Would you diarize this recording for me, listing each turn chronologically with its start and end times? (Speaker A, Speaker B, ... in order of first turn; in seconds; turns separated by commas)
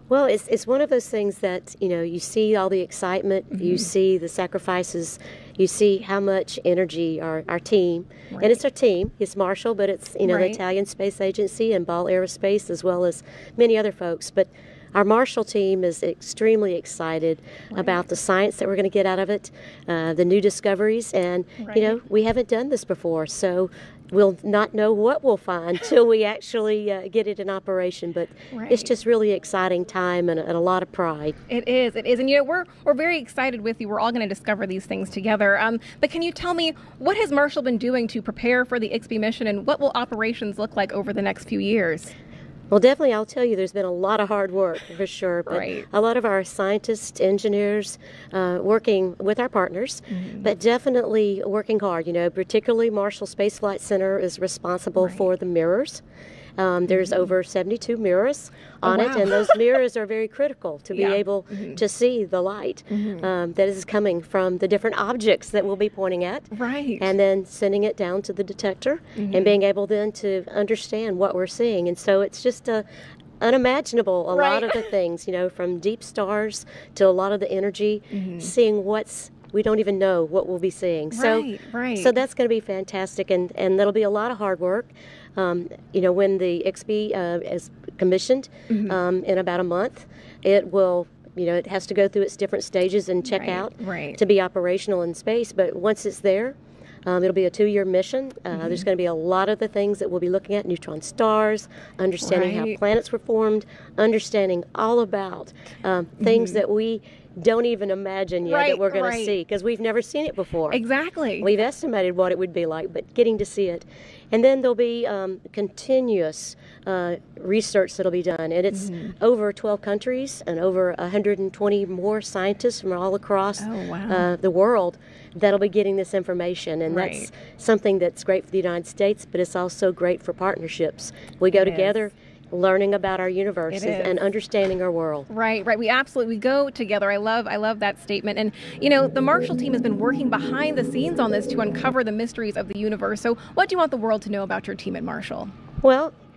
Speaker A: 0.1-31.4, Speaker B: 3.5-3.9, Speaker B: 8.3-8.6, Speaker B: 10.2-10.6, Speaker B: 17.7-18.0, Speaker B: 21.6-22.0, Speaker B: 28.5-28.9, Speaker B: 31.5-42.1, Speaker A: 42.7-56.0, Speaker B: 45.5-45.9, Speaker B: 50.1-50.5, Speaker B: 55.0-55.2, Speaker A: 56.6-72.8, Speaker B: 56.9-57.2, Speaker B: 58.8-59.6, Speaker B: 60.9-61.8, Speaker B: 62.9-63.3, Speaker B: 66.5-67.1, Speaker B: 69.2-69.5, Speaker A: 73.4-110.8, Speaker B: 74.3-74.9, Speaker B: 78.1-78.5, Speaker B: 81.1-82.1, Speaker B: 88.7-89.0, Speaker B: 93.2-94.2, Speaker B: 98.5-98.8, Speaker B: 102.2-102.8, Speaker B: 106.2-106.6, Speaker B: 108.4-109.3, Speaker B: 110.7-111.5, Speaker A: 111.4-135.3, Speaker B: 118.7-119.1, Speaker B: 123.6-124.3, Speaker B: 126.9-127.3, Speaker B: 131.5-132.0, Speaker B: 133.7-134.2, Speaker B: 135.3-145.5, Speaker A: 145.8-146.1